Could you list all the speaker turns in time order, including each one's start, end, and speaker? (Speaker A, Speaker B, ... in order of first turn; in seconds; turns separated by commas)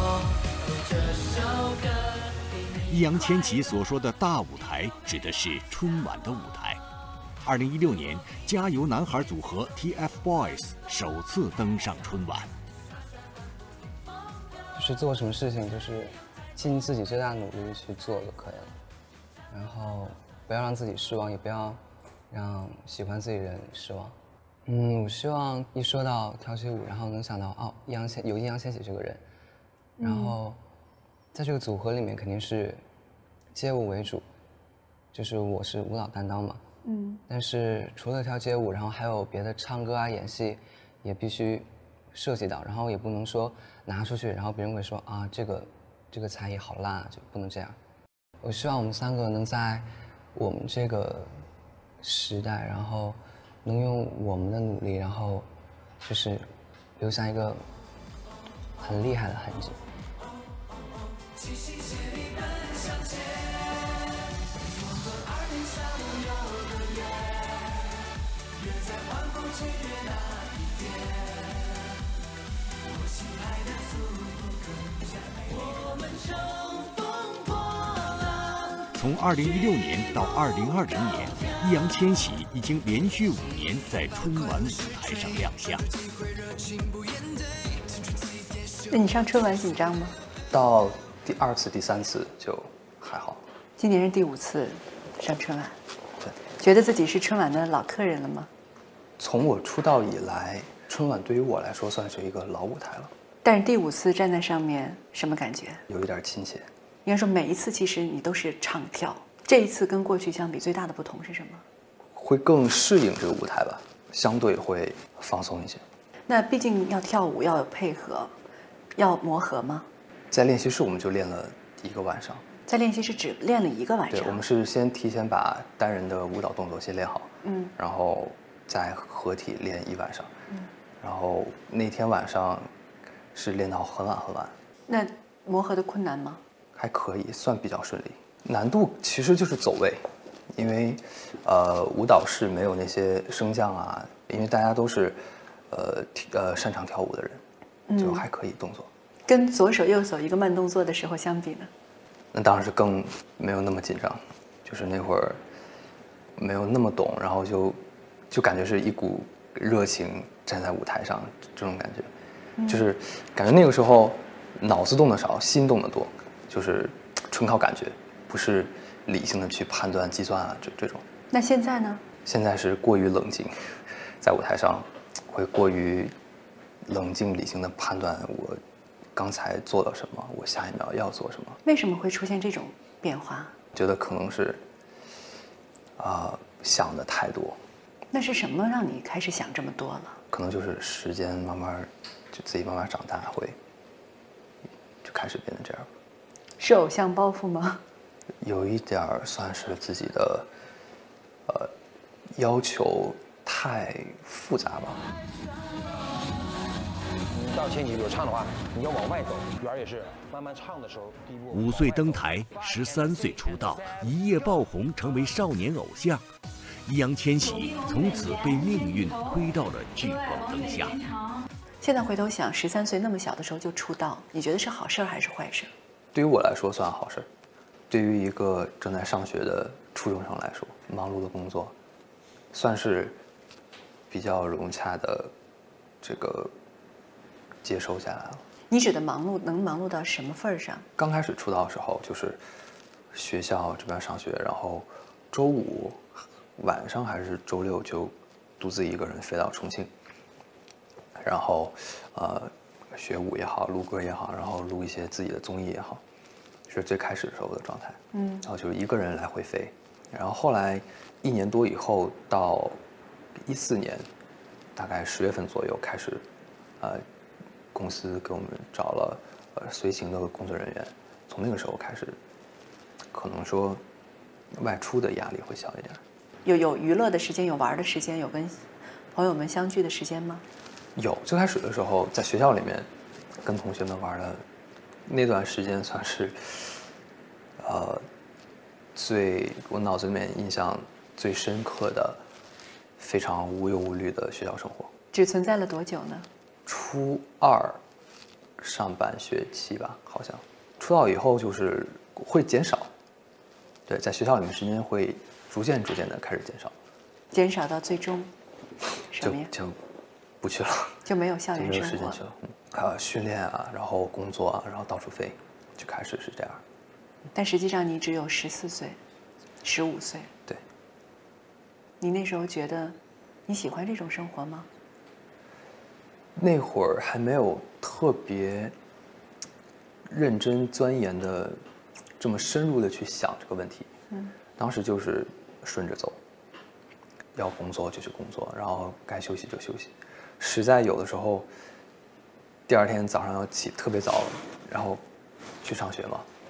Speaker A: 2.9-6.8, Speaker A: 7.4-12.5, Speaker B: 14.7-18.8, Speaker B: 19.5-29.2, Speaker C: 30.0-30.4, Speaker B: 30.0-30.6, Speaker B: 31.3-32.8, Speaker B: 33.5-34.2, Speaker B: 35.1-36.6, Speaker C: 36.8-37.2, Speaker B: 37.3-47.8, Speaker B: 48.4-51.4, Speaker B: 52.0-55.5, Speaker B: 56.0-57.6, Speaker B: 58.8-59.8, Speaker A: 78.9-85.8, Speaker C: 88.9-90.2, Speaker D: 90.5-93.4, Speaker C: 93.8-95.8, Speaker C: 96.6-98.5, Speaker D: 99.2-103.1, Speaker C: 103.4-105.8, Speaker D: 105.9-106.7, Speaker C: 107.0-111.6, Speaker D: 112.1-115.8, Speaker C: 116.3-118.3, Speaker C: 118.9-119.9, Speaker D: 120.3-122.4, Speaker C: 122.7-124.4, Speaker D: 124.1-130.3, Speaker C: 127.4-127.7, Speaker D: 131.0-132.7, Speaker D: 133.3-134.6, Speaker C: 134.9-136.4, Speaker D: 136.7-145.2, Speaker D: 145.7-147.4, Speaker C: 147.9-148.2, Speaker D: 147.9-148.9, Speaker C: 149.3-151.7, Speaker D: 152.3-155.4, Speaker D: 156.4-157.8, Speaker D: 158.3-162.1, Speaker C: 162.6-162.8, Speaker D: 162.7-171.0, Speaker C: 171.3-172.0, Speaker D: 172.2-176.1, Speaker D: 176.8-178.6, Speaker D: 179.1-181.6, Speaker C: 181.6-183.5, Speaker D: 183.7-184.6, Speaker D: 186.0-187.6, Speaker C: 188.1-190.2, Speaker D: 190.3-193.6, Speaker D: 195.0-195.9, Speaker C: 196.6-197.8, Speaker D: 198.4-200.5, Speaker D: 201.5-201.7, Speaker D: 202.3-205.1, Speaker E: 207.3-214.0, Speaker A: 211.5-216.3, Speaker A: 216.8-221.1, Speaker C: 221.8-225.7, Speaker D: 226.1-227.3, Speaker D: 227.9-231.7, Speaker D: 232.5-233.2, Speaker D: 234.1-235.3, Speaker D: 236.0-236.5, Speaker D: 237.6-238.4, Speaker C: 238.7-240.8, Speaker D: 241.0-242.4, Speaker D: 243.1-246.0, Speaker D: 246.6-249.9, Speaker D: 251.2-256.0, Speaker D: 256.7-262.8, Speaker C: 258.1-258.4, Speaker D: 263.4-264.1, Speaker D: 264.8-266.2, Speaker D: 266.8-267.0, Speaker D: 267.7-272.2, Speaker D: 273.1-273.8, Speaker D: 274.5-276.0, Speaker C: 276.4-280.4, Speaker D: 280.9-282.9, Speaker D: 283.4-284.4, Speaker D: 285.1-286.8, Speaker D: 287.6-288.0, Speaker D: 288.9-292.2, Speaker D: 293.0-294.9, Speaker C: 295.1-296.3, Speaker D: 296.6-297.8, Speaker D: 298.6-302.9, Speaker D: 303.9-306.7, Speaker C: 307.3-308.3, Speaker C: 309.1-309.5, Speaker D: 309.2-309.8, Speaker D: 310.4-311.0, Speaker C: 311.1-312.2, Speaker D: 311.5-316.6, Speaker C: 317.3-319.0, Speaker C: 319.6-320.3, Speaker C: 322.0-322.9, Speaker C: 323.5-324.7, Speaker D: 326.4-328.7, Speaker D: 330.1-331.6, Speaker D: 332.2-333.9, Speaker D: 334.6-336.2, Speaker D: 337.3-341.5, Speaker D: 342.7-345.0, Speaker D: 345.6-346.2